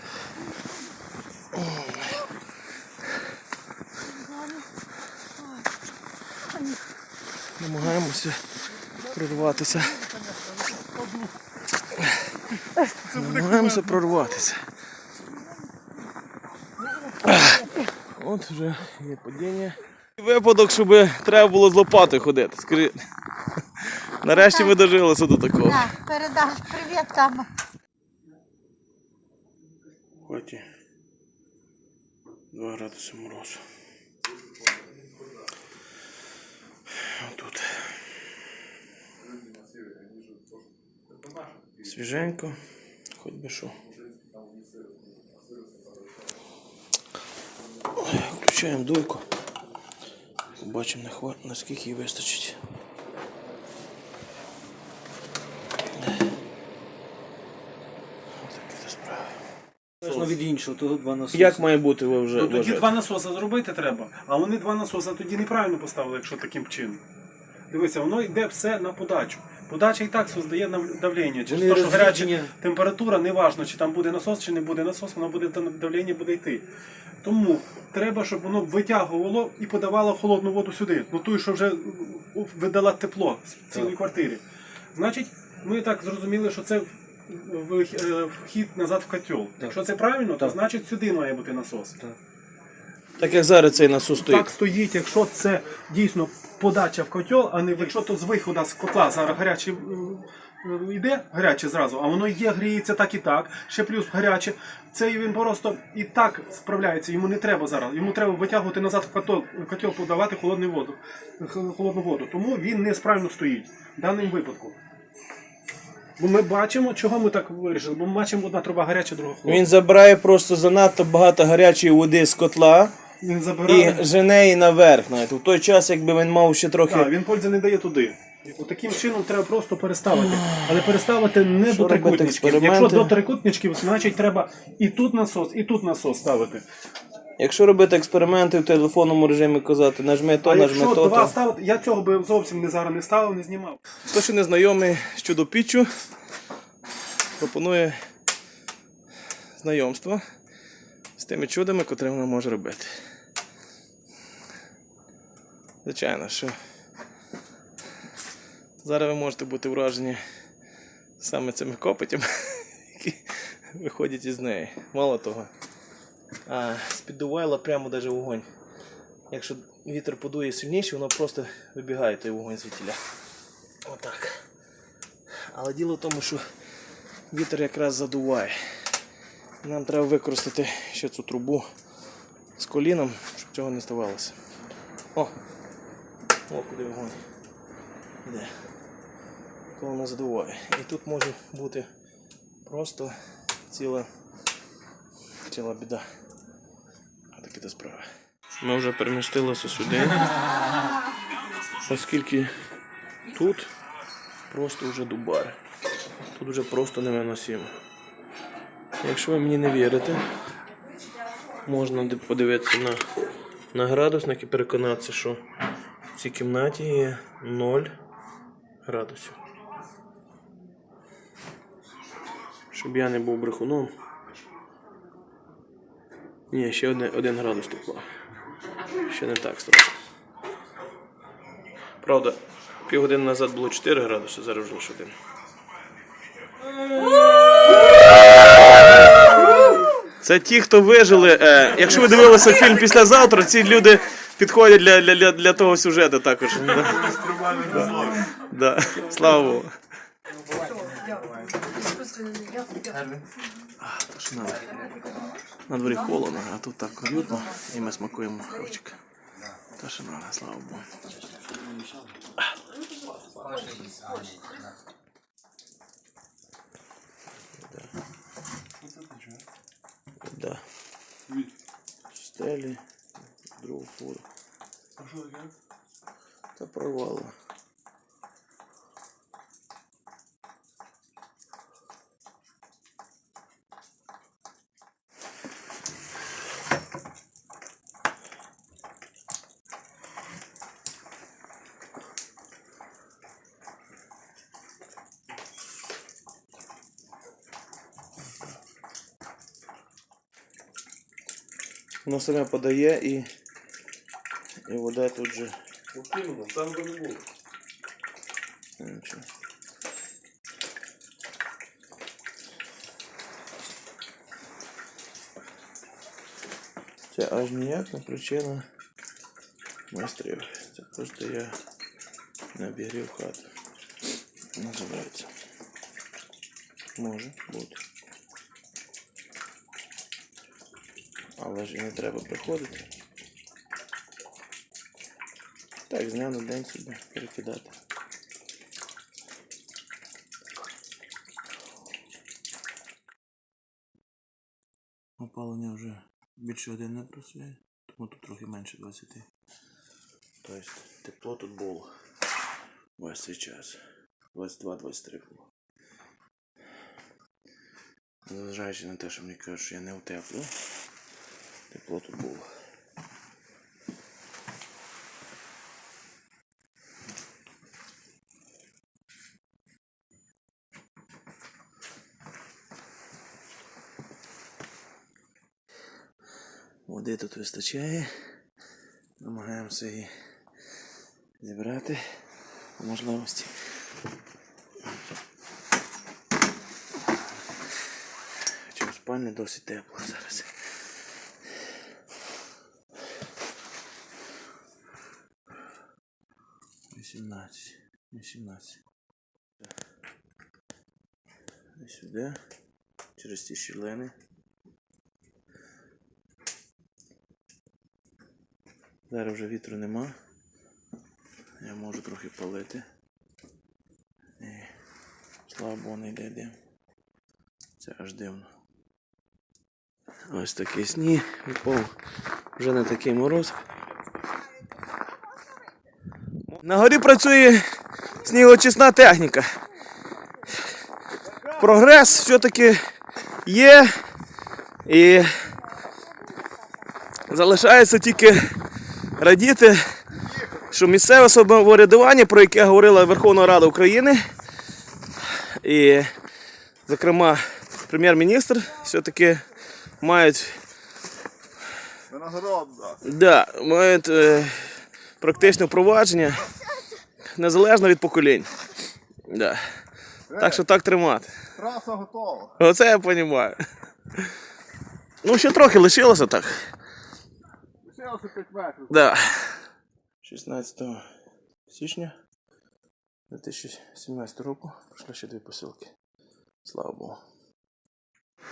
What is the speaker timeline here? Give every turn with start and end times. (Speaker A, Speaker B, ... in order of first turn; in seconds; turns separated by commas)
Speaker A: 1.5-2.2, Speaker A: 7.6-10.1, Speaker A: 13.1-14.7, Speaker B: 13.1-14.0, Speaker A: 17.2-17.6, Speaker A: 18.1-23.0, Speaker A: 24.2-25.9, Speaker C: 24.3-24.8, Speaker C: 25.6-27.5, Speaker A: 30.2-30.6, Speaker A: 32.5-33.6, Speaker D: 34.7-35.2, Speaker A: 37.1-38.0, Speaker D: 39.2-40.7, Speaker D: 41.4-41.9, Speaker A: 41.8-42.6, Speaker A: 43.1-43.8, Speaker D: 43.8-46.0, Speaker A: 48.0-49.3, Speaker A: 50.6-52.6, Speaker A: 58.4-59.4, Speaker E: 60.0-61.7, Speaker A: 61.3-62.9, Speaker B: 62.3-67.0, Speaker B: 67.7-76.7, Speaker E: 71.5-72.5, Speaker B: 77.2-84.4, Speaker E: 83.7-84.0, Speaker B: 84.9-92.0, Speaker A: 93.2-94.5, Speaker B: 94.2-114.8, Speaker B: 116.2-119.7, Speaker A: 119.5-122.9, Speaker B: 123.2-124.0, Speaker A: 123.7-127.1, Speaker B: 126.9-136.7, Speaker A: 130.1-130.9, Speaker A: 131.7-133.2, Speaker A: 137.4-141.3, Speaker B: 140.4-143.8, Speaker A: 144.1-145.9, Speaker A: 147.4-148.0, Speaker A: 149.6-150.2, Speaker A: 151.2-153.0, Speaker A: 155.8-156.6, Speaker A: 158.8-160.2, Speaker A: 161.2-165.5, Speaker A: 166.5-168.5, Speaker A: 169.3-173.0, Speaker A: 173.8-174.5, Speaker A: 175.5-176.4, Speaker A: 177.3-178.9, Speaker A: 179.6-181.7, Speaker A: 182.6-184.4, Speaker A: 186.5-187.2, Speaker A: 188.2-188.6, Speaker A: 189.7-191.9, Speaker A: 192.7-193.2, Speaker A: 193.7-194.1, Speaker A: 195.5-196.1, Speaker A: 197.3-198.1, Speaker A: 198.6-200.3, Speaker A: 201.8-202.8, Speaker A: 203.3-203.7, Speaker A: 204.5-205.6, Speaker A: 206.3-207.7, Speaker A: 209.0-210.2, Speaker A: 211.7-213.1, Speaker A: 213.7-215.4, Speaker A: 216.1-217.9, Speaker A: 218.8-219.4, Speaker A: 222.7-223.9, Speaker A: 226.5-228.1, Speaker A: 229.0-229.9, Speaker A: 232.0-235.2, Speaker A: 240.2-247.2, Speaker D: 246.9-248.3, Speaker A: 247.7-249.7, Speaker E: 252.9-253.2, Speaker A: 253.8-254.7, Speaker A: 255.7-259.0, Speaker A: 259.8-260.9, Speaker E: 261.3-262.2, Speaker E: 263.4-264.6, Speaker A: 267.6-267.9, Speaker D: 268.8-269.4, Speaker A: 270.2-270.6, Speaker A: 272.1-272.8, Speaker A: 273.6-274.3, Speaker D: 275.0-275.5, Speaker A: 276.6-277.3, Speaker A: 302.1-303.3, Speaker A: 304.7-305.6, Speaker D: 305.9-307.2, Speaker A: 308.8-309.2, Speaker A: 317.1-318.7, Speaker A: 319.9-321.6, Speaker A: 322.5-323.5, Speaker A: 324.6-325.3, Speaker A: 327.0-327.8, Speaker A: 331.4-332.9, Speaker A: 335.9-337.7, Speaker A: 345.2-349.3, Speaker A: 350.4-351.9, Speaker A: 353.0-353.8, Speaker A: 354.3-355.4, Speaker A: 358.3-360.5, Speaker A: 361.7-362.5, Speaker A: 376.9-378.1, Speaker A: 379.2-380.1, Speaker A: 381.4-382.0, Speaker A: 382.8-383.8, Speaker A: 388.7-390.5, Speaker A: 396.9-398.8, Speaker A: 401.8-402.4, Speaker A: 403.2-404.1, Speaker A: 409.1-410.1, Speaker A: 411.6-412.9, Speaker A: 414.4-414.7, Speaker A: 415.5-416.6, Speaker A: 417.8-418.5, Speaker A: 420.3-421.9, Speaker A: 422.6-423.6, Speaker A: 426.5-427.6, Speaker A: 428.2-429.6, Speaker A: 431.6-432.8, Speaker A: 433.4-433.9, Speaker A: 434.9-435.5, Speaker A: 437.3-438.5, Speaker A: 439.2-439.8, Speaker A: 440.7-444.3, Speaker A: 445.6-446.1, Speaker A: 446.9-449.5, Speaker A: 450.0-450.6, Speaker D: 452.1-453.0, Speaker A: 453.0-456.5, Speaker A: 457.4-458.6, Speaker A: 459.3-459.6, Speaker D: 460.3-460.6, Speaker A: 460.3-461.3, Speaker D: 461.6-462.5, Speaker A: 462.6-463.6, Speaker A: 465.2-466.7, Speaker D: 467.9-468.9, Speaker A: 468.9-469.6, Speaker A: 470.2-471.0, Speaker A: 471.7-472.1, Speaker A: 473.3-475.9, Speaker A: 476.6-477.2